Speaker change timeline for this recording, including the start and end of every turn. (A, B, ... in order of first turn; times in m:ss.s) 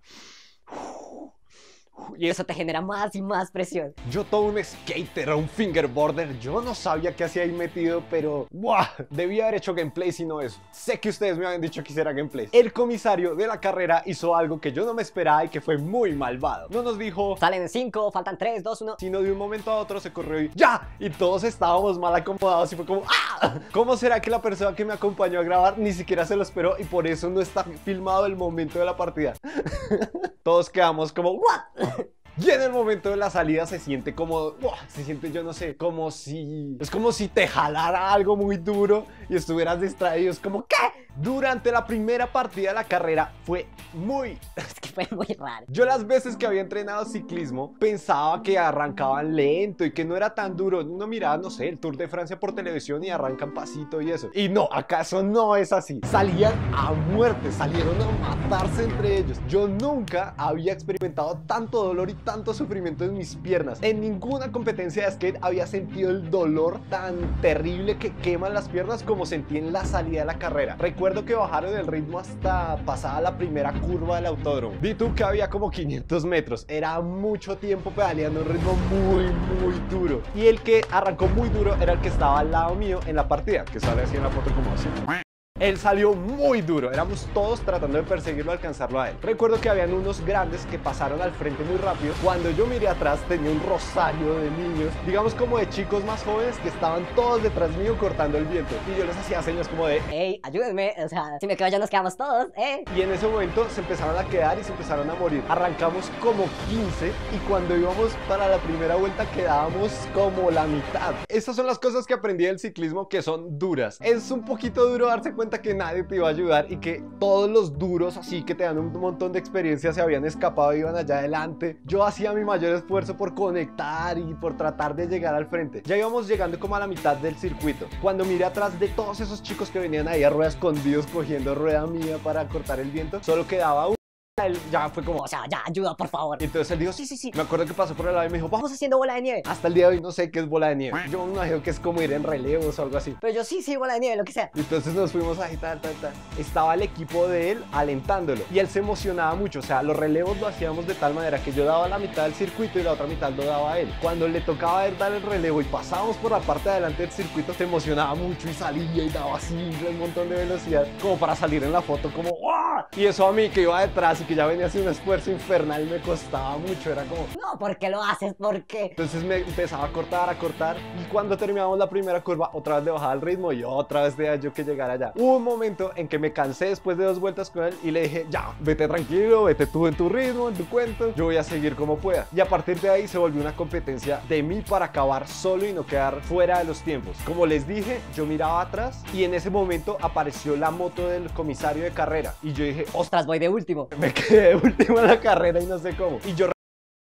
0:02.0-0:02.4 A
0:02.2-0:04.0 B
0:04.0-0:17.4 A
0:17.4-0:19.0 B
0:19.0-0:44.6 A
0:44.7-0:45.7 B
0:45.7-1:40.1 A
1:40.1-1:42.9 B
1:42.9-2:15.2 A
2:15.2-2:16.4 B
2:16.4-2:18.7 A
2:17.0-2:17.3 B
2:18.6-2:19.5 B
2:19.4-2:23.2 A
2:23.2-2:24.5 B
2:24.5-2:47.3 A
2:47.3-2:49.0 B
2:49.0-3:13.0 A
3:13.0-3:13.9 B
3:13.9-3:16.6 A